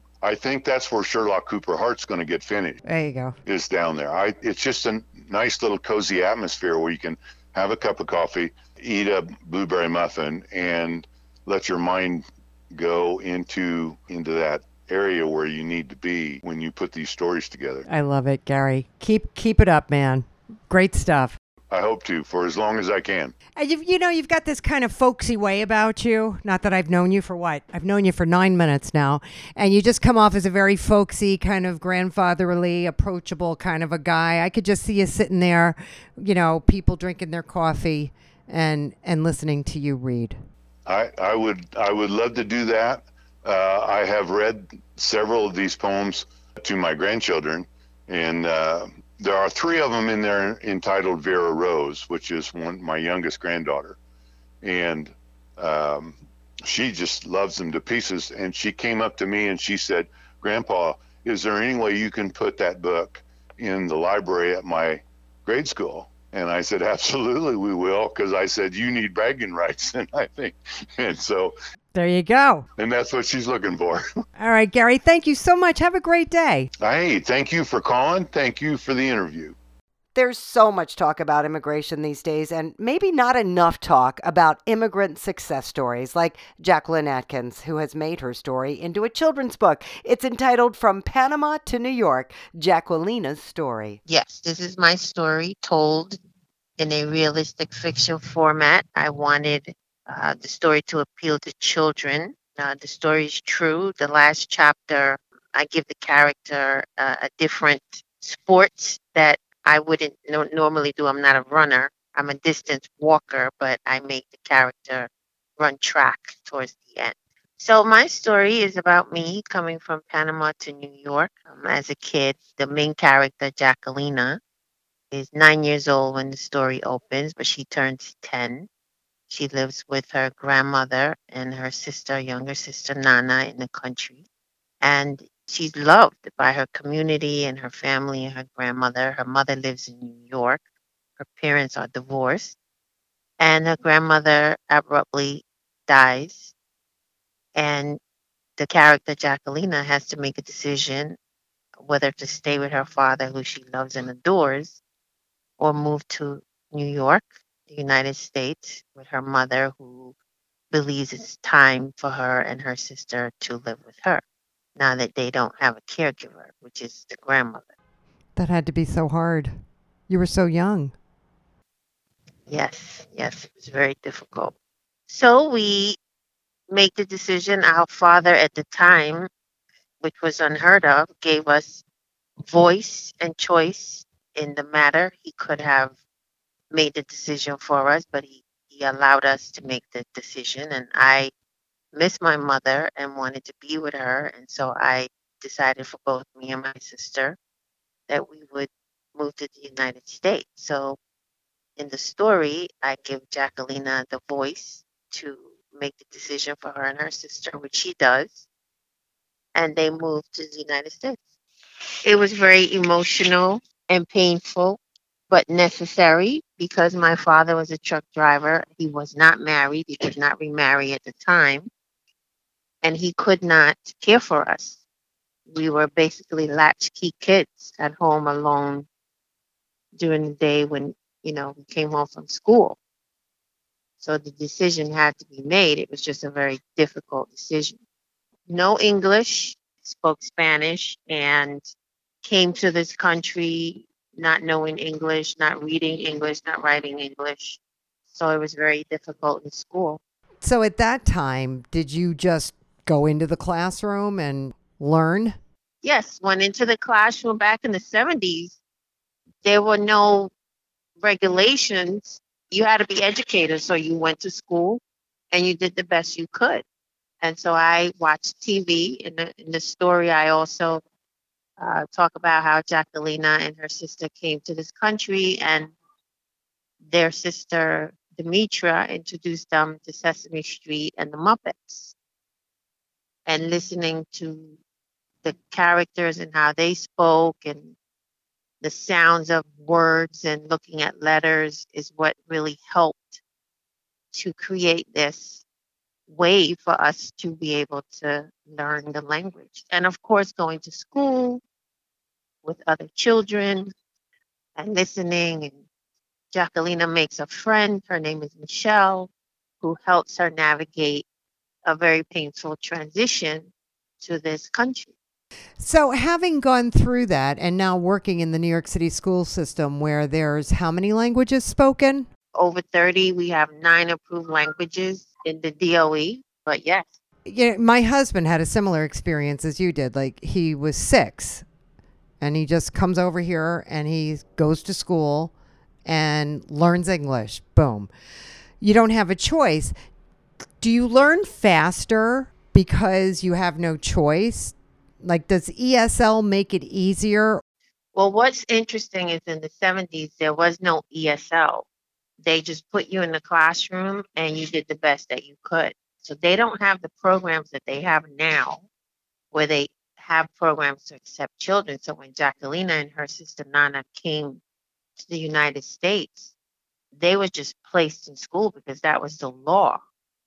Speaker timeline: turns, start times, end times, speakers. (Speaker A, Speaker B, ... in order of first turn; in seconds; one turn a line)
Speaker A: 0.2-2.8
Speaker B: 2.8-3.3
Speaker A: 3.4-17.8
Speaker B: 17.9-21.4
Speaker A: 21.7-23.3
Speaker B: 23.6-40.4
Speaker A: 40.9-54.0
Speaker A: 54.6-71.5
Speaker B: 71.9-72.7
Speaker A: 72.8-74.2
Speaker B: 74.4-76.7
Speaker A: 76.8-79.5
Speaker B: 80.1-94.0
Speaker C: 94.1-96.2
Speaker C: 96.8-124.4
Speaker C: 125.1-128.7
Speaker C: 129.3-134.2
Speaker C: 134.8-140.6
Speaker C: 141.2-142.6
Speaker C: 143.4-146.5
Speaker C: 147.5-148.0
Speaker C: 148.6-151.2
Speaker C: 151.8-154.8
Speaker C: 155.6-160.1
Speaker C: 160.7-164.2
Speaker C: 164.8-167.7
Speaker B: 168.3-170.9
Speaker C: 172.5-174.5
Speaker C: 175.1-176.0
Speaker C: 176.7-179.3
Speaker C: 180.0-181.8
Speaker C: 182.4-185.9
Speaker C: 186.7-191.3
Speaker C: 191.9-197.4
Speaker C: 198.1-201.0
Speaker C: 201.8-208.5
Speaker C: 209.5-211.2
Speaker C: 212.0-221.7
Speaker C: 222.8-224.8
Speaker C: 225.5-228.9
Speaker C: 229.9-232.8
Speaker C: 234.0-237.8
Speaker C: 238.5-241.6
Speaker C: 242.2-247.6
Speaker C: 248.1-250.0
Speaker B: 250.4-255.3
Speaker C: 255.8-258.6
Speaker C: 259.4-260.3
Speaker C: 261.0-266.6
Speaker C: 267.2-270.8
Speaker C: 271.6-275.7
Speaker C: 276.8-281.9
Speaker C: 283.2-284.6
Speaker C: 285.2-287.7
Speaker C: 288.6-293.2
Speaker C: 294.1-295.4
Speaker C: 296.1-301.4
Speaker C: 302.4-303.7
Speaker C: 304.6-305.6
Speaker C: 306.3-309.1
Speaker C: 309.6-311.0
Speaker C: 311.6-314.9
Speaker B: 315.6-322.1
Speaker C: 322.3-326.9
Speaker B: 327.2-331.4
Speaker B: 332.2-335.3
Speaker B: 335.8-337.9
Speaker B: 338.6-339.7
Speaker B: 340.6-347.4
Speaker C: 347.9-351.7
Speaker C: 352.2-358.6
Speaker C: 359.3-364.4
Speaker C: 365.0-366.3
Speaker C: 366.9-369.8